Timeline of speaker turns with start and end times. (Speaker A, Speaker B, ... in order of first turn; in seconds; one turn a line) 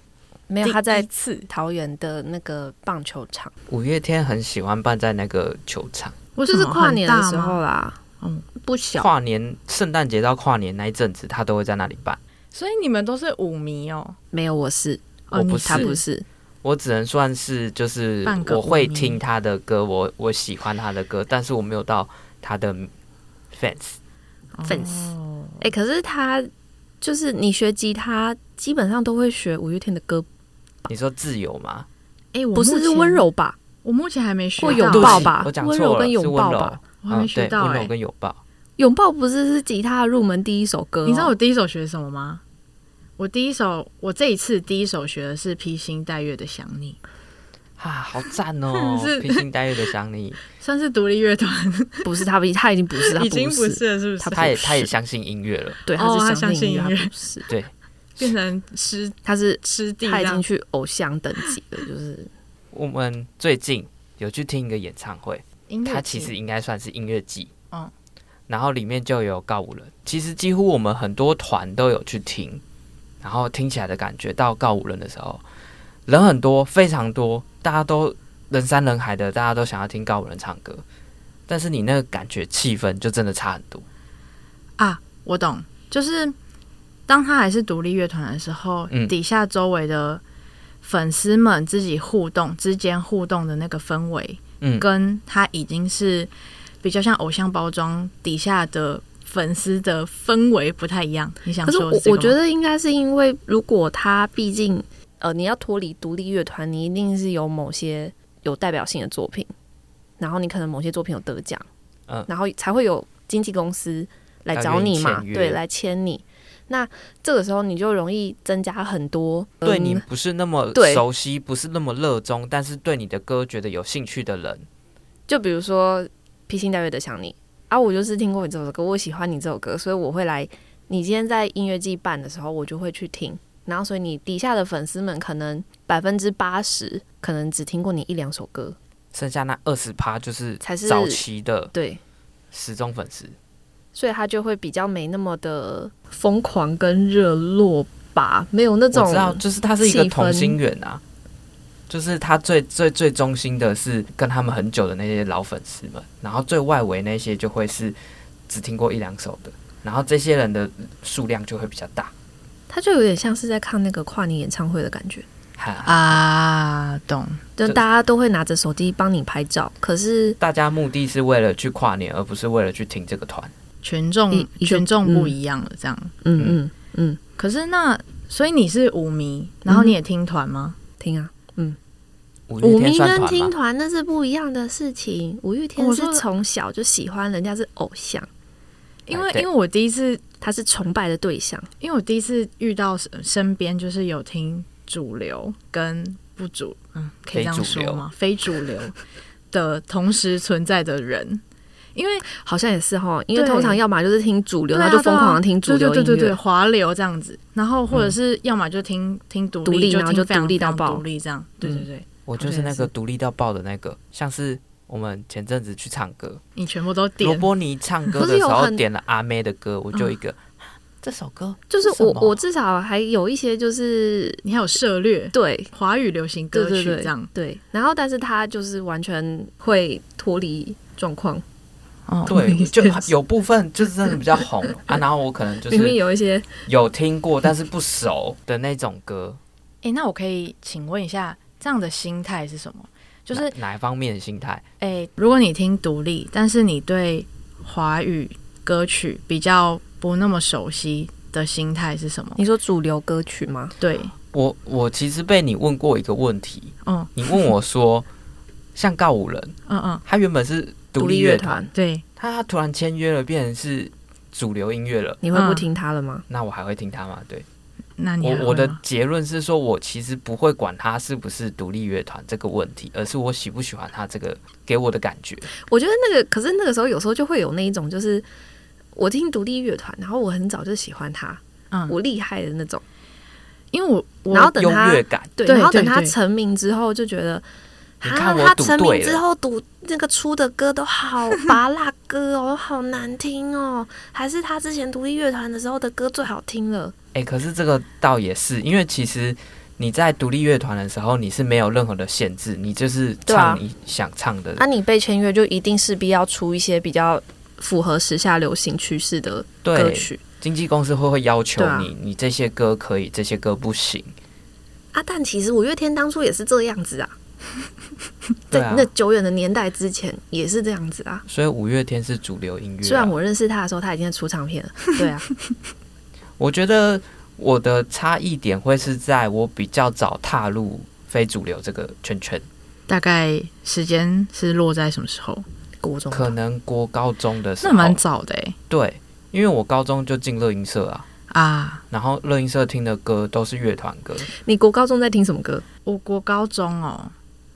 Speaker A: 0.5-3.5
Speaker B: 0.6-1.5
Speaker C: 3.7-6.2
Speaker B: 6.4-7.6
Speaker A: 6.5-8.0
Speaker A: 8.6-9.1
Speaker C: 8.9-12.2
Speaker B: 12.5-14.2
Speaker A: 14.3-16.2
Speaker B: 15.3-16.0
Speaker C: 15.3-15.9
Speaker C: 16.6-22.9
Speaker B: 18.2-19.2
Speaker C: 23.5-24.0
Speaker B: 24.6-25.7
Speaker A: 24.7-26.5
Speaker A: 27.0-30.3
Speaker C: 30.9-31.9
Speaker B: 32.3-33.2
Speaker A: 32.5-33.6
Speaker B: 33.8-35.3
Speaker A: 34.6-36.8
Speaker C: 34.7-38.4
Speaker B: 37.0-37.9
Speaker A: 38.8-41.3
Speaker B: 41.0-42.4
Speaker B: 43.2-47.0
Speaker C: 47.8-50.4
Speaker B: 48.7-49.5
Speaker B: 50.6-52.1
Speaker A: 52.0-54.9
Speaker B: 53.0-54.6
Speaker C: 54.3-55.8
Speaker A: 55.9-57.5
Speaker B: 55.9-57.1
Speaker B: 58.2-60.4
Speaker A: 59.2-62.3
Speaker C: 62.7-67.5
Speaker B: 65.7-66.3
Speaker C: 68.5-72.6
Speaker C: 73.2-75.4
Speaker C: 76.1-80.8
Speaker C: 81.5-83.9
Speaker B: 84.8-86.3
Speaker B: 87.1-90.2
Speaker B: 90.8-96.3
Speaker B: 96.8-102.4
Speaker A: 101.6-109.5
Speaker A: 110.2-111.7
Speaker A: 112.3-120.0
Speaker C: 114.5-115.6
Speaker C: 119.6-124.7
Speaker A: 120.8-121.0
Speaker A: 125.3-138.8
Speaker C: 139.1-141.7
Speaker A: 140.6-142.0
Speaker C: 142.5-143.4
Speaker A: 143.9-150.6
Speaker C: 148.9-151.0
Speaker C: 151.9-157.9
Speaker C: 158.5-162.1
Speaker A: 162.7-165.2
Speaker C: 165.6-166.2
Speaker B: 165.8-167.4
Speaker A: 167.6-170.4
Speaker C: 170.4-173.5
Speaker B: 173.8-176.1
Speaker A: 174.3-175.3
Speaker A: 176.2-177.2
Speaker B: 177.4-180.8
Speaker A: 179.7-179.9
Speaker A: 181.0-181.8
Speaker C: 182.5-183.5
Speaker A: 182.6-188.3
Speaker B: 185.8-186.2
Speaker B: 189.1-190.2
Speaker C: 189.1-189.5
Speaker A: 190.4-191.7
Speaker B: 191.8-198.9
Speaker C: 197.3-198.1
Speaker B: 199.5-201.4
Speaker B: 201.9-202.3
Speaker A: 202.2-206.4
Speaker B: 203.3-203.8
Speaker B: 204.7-212.9
Speaker A: 209.7-211.0
Speaker A: 211.6-211.9
Speaker C: 212.3-216.4
Speaker B: 216.6-217.5
Speaker C: 217.2-220.5
Speaker A: 218.2-218.8
Speaker C: 221.0-222.4
Speaker A: 221.7-224.4
Speaker B: 224.4-227.3
Speaker A: 225.3-225.7
Speaker A: 226.5-231.4
Speaker B: 232.1-232.6
Speaker C: 232.3-236.0
Speaker A: 232.3-233.1
Speaker A: 235.7-236.6
Speaker C: 236.7-239.4
Speaker B: 239.8-243.6
Speaker C: 243.3-244.6
Speaker B: 244.8-252.4
Speaker A: 252.4-253.8
Speaker B: 253.8-254.1
Speaker C: 254.3-258.1
Speaker B: 256.9-257.1
Speaker C: 258.8-265.2
Speaker B: 259.7-260.0
Speaker A: 261.0-261.7
Speaker B: 261.7-262.0
Speaker A: 265.2-266.2
Speaker B: 265.3-265.7
Speaker C: 266.3-267.5
Speaker B: 268.0-268.8
Speaker C: 268.2-275.5
Speaker A: 275.5-278.3
Speaker A: 278.9-282.8
Speaker B: 283.7-284.6
Speaker A: 284.3-287.4
Speaker C: 284.5-285.3
Speaker B: 285.5-286.1
Speaker A: 288.0-296.9
Speaker C: 288.0-289.2
Speaker C: 297.1-304.6
Speaker A: 303.3-303.6
Speaker A: 304.6-310.2
Speaker C: 309.6-314.1
Speaker A: 311.6-311.9
Speaker A: 314.9-317.1
Speaker C: 318.5-318.9
Speaker A: 318.5-321.2
Speaker C: 321.3-323.2
Speaker A: 322.8-325.3
Speaker C: 326.4-332.5
Speaker B: 332.9-335.4
Speaker A: 335.8-336.4
Speaker C: 336.1-338.0
Speaker B: 337.6-338.6
Speaker C: 338.7-341.1
Speaker B: 341.3-341.8
Speaker C: 341.9-344.3
Speaker A: 344.3-345.6
Speaker B: 345.9-347.1